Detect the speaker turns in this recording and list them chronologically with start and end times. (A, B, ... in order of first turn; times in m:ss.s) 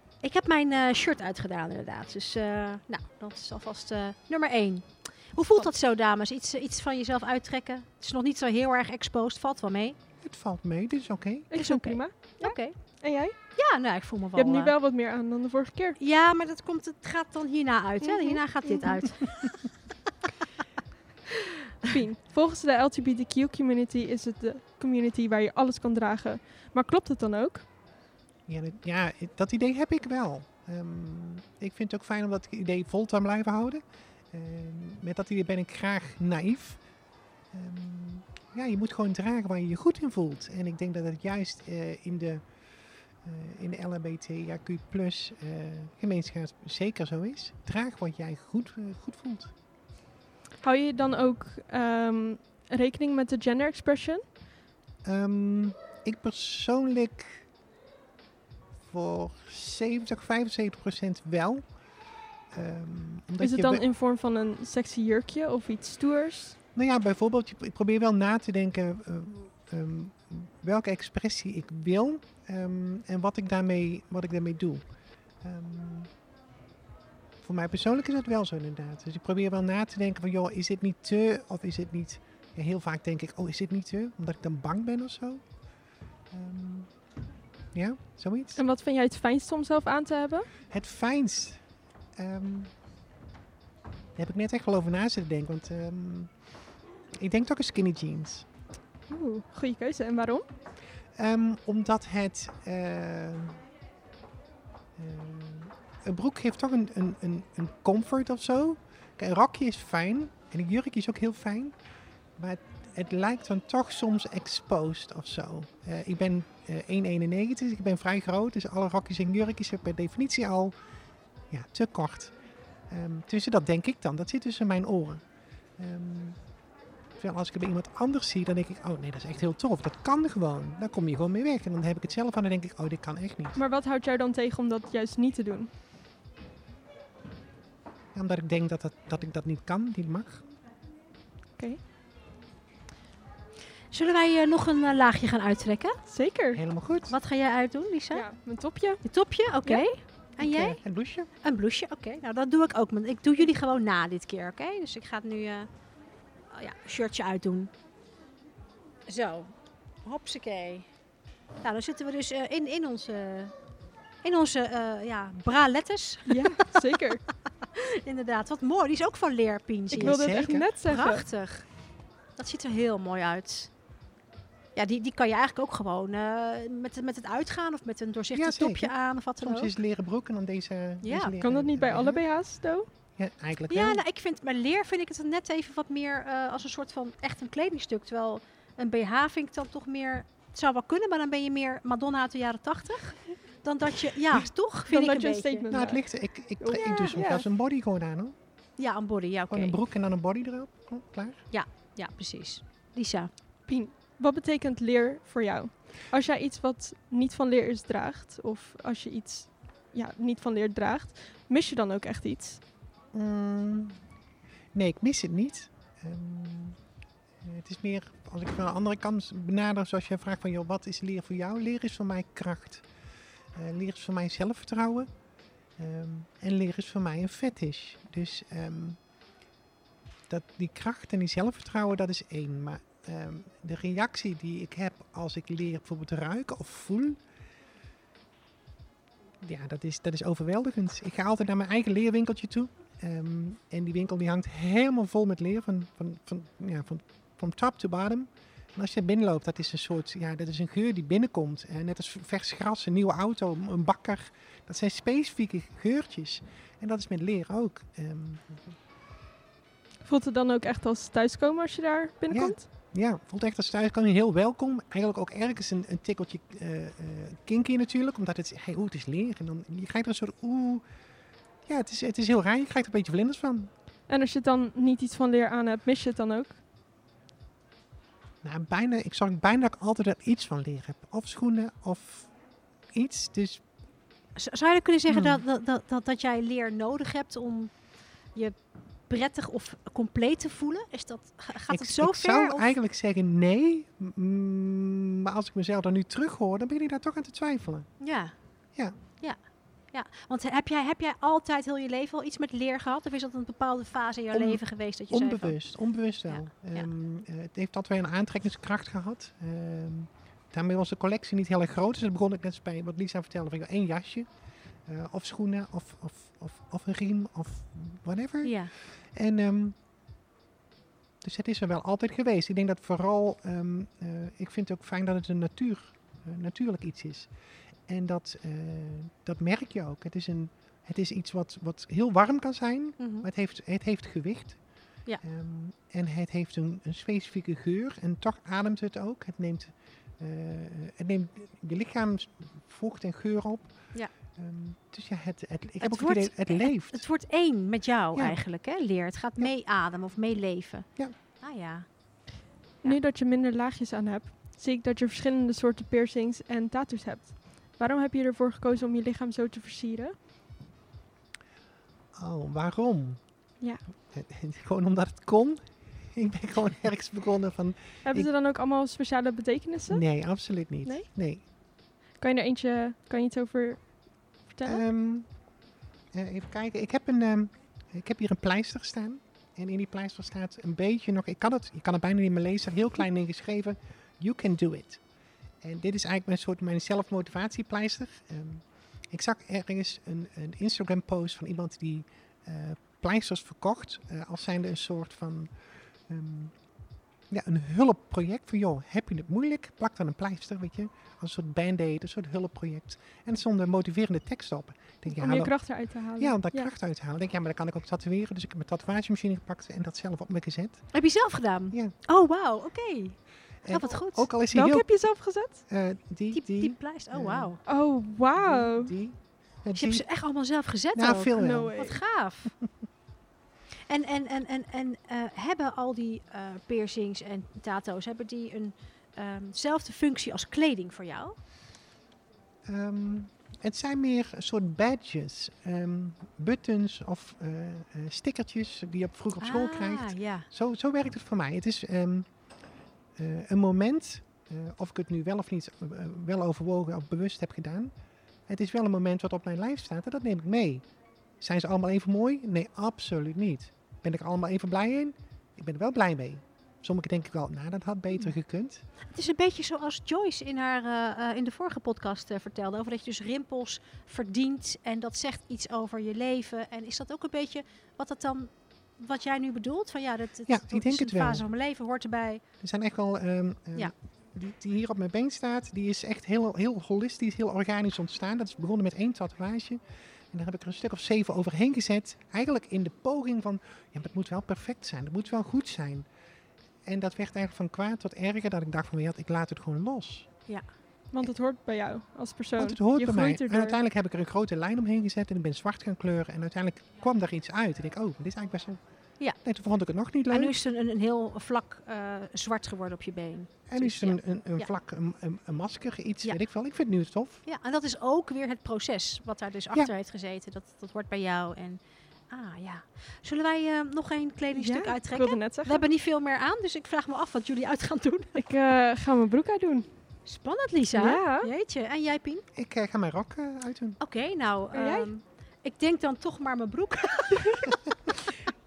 0:00.2-0:10.0 A
0:10.2-0:11.5 B
0:11.5-0:13.4 C
0:11.5-0:12.8 A
0:13.6-0:14.7 A
0:14.4-0:16.0 C
0:16.0-0:19.5 A
0:18.0-0:19.0 C
0:21.8-0:27.6 C
0:28.5-0:36.8 B
0:37.5-0:42.4 B
0:43.2-0:49.5 B
0:50.6-0:54.2 C
0:55.0-0:57.4 B
0:58.9-1:01.6 B
1:02.5-1:03.8 B
1:03.4-1:06.6 C
1:06.8-1:14.8 B
1:15.4-1:16.1 B
1:17.4-1:25.4 B
1:26.3-1:26.9 B
1:27.7-1:28.6 B
1:28.6-1:30.5 C
1:30.7-1:31.6 B
1:32.2-1:32.7 B
1:34.2-1:36.3 B
1:37.2-1:38.5 B
1:39.1-1:40.5 C
1:41.2-1:43.6 B
1:45.0-1:51.8 B
1:52.4-2:00.8 B
2:01.5-2:02.4 B
2:02.9-2:05.2 B
2:05.8-2:06.4 B
2:07.2-2:13.6 B
2:13.6-2:15.7 C
2:18.1-2:20.4 B
2:23.9-2:26.0 A
2:26.1-2:26.6 C
2:26.5-2:27.1 B
2:27.1-2:28.2 A
2:28.1-2:29.0 C
2:29.0-2:30.8 A
2:30.4-2:31.3 B
2:31.4-2:35.7 A
2:36.5-2:37.7 A
2:39.1-2:39.5 A
2:40.0-2:40.9 A
2:41.6-2:43.5 A
2:44.2-2:46.7 A
2:46.3-2:47.2 C
2:47.7-2:51.7 A
2:49.9-2:51.2 C
2:50.0-2:50.7 B
2:52.4-2:53.7 A
2:54.8-2:59.7 A
2:58.3-3:02.2 B
3:01.0-3:01.3 A
3:01.4-3:02.9 C
3:03.2-3:04.0 B
3:03.7-3:15.7 A
3:14.9-3:16.0 C
3:15.7-3:18.4 B
3:16.6-3:17.4 C
3:18.8-3:19.8 A
3:19.5-3:21.4 B
3:21.5-3:23.3 A
3:23.7-3:32.6 C
3:33.1-3:34.0 B
3:34.7-3:36.8 B
3:37.4-3:42.8 B
3:43.6-3:45.1 B
3:45.8-3:49.0 B
3:50.3-3:57.2 B
3:59.4-4:18.8 B
4:20.0-4:22.6 C
4:22.3-4:30.8 B
4:31.7-4:33.7 B
4:34.1-4:36.6 C
4:38.4-4:42.3 B
4:42.9-4:43.6 B
4:44.4-4:47.7 A
4:45.1-4:45.4 B
4:49.1-4:52.8 A
4:51.7-4:57.9 B
4:58.0-4:58.4 A
4:59.9-5:05.6 A
5:04.3-5:14.3 B
5:06.3-5:06.9 A
5:14.9-5:19.8 B
5:18.4-5:18.7 A
5:21.2-5:27.3 B
5:27.9-5:34.6 B
5:33.0-5:33.3 A
5:35.2-5:43.7 B
5:44.4-5:47.0 B
5:45.8-5:50.9 A
5:51.4-5:51.9 A
5:52.8-6:00.2 C
6:02.2-6:03.2 B
6:04.1-6:08.3 B
6:08.0-6:10.0 C
6:09.9-6:11.4 B
6:12.2-6:14.8 C
6:14.6-6:15.3 B
6:16.1-6:25.0 B
6:25.6-6:35.5 B
6:36.1-6:36.5 B
6:37.3-6:45.5 B
6:45.1-6:46.7 C
6:46.2-6:50.9 B
6:50.9-6:54.3 A
6:53.6-6:54.9 B
6:54.5-6:55.6 C
6:55.7-6:57.5 B
6:56.3-6:57.6 A
6:57.7-6:58.9 C
6:58.4-7:00.1 B
6:59.8-7:02.6 A
7:01.0-7:01.8 B
7:01.4-7:02.0 C
7:03.9-7:11.4 A
7:12.6-7:22.3 B
7:19.4-7:20.5 A
7:23.2-7:27.9 B
7:28.5-7:30.8 B
7:31.4-7:38.8 B
7:39.1-7:52.4 A
7:50.5-7:51.4 B
7:52.6-8:06.1 B
8:06.8-8:10.3 B
8:11.1-8:13.8 C
8:12.6-8:18.8 B
8:19.4-8:20.6 B
8:20.3-8:24.7 A
8:23.7-8:27.4 B
8:27.5-8:31.8 A
8:32.3-8:38.4 A
8:34.5-8:35.8 C
8:38.4-8:39.9 C
8:40.3-8:42.4 A
8:41.0-8:41.5 C
8:42.6-8:44.0 B
8:44.0-8:48.1 A
8:44.7-8:45.1 C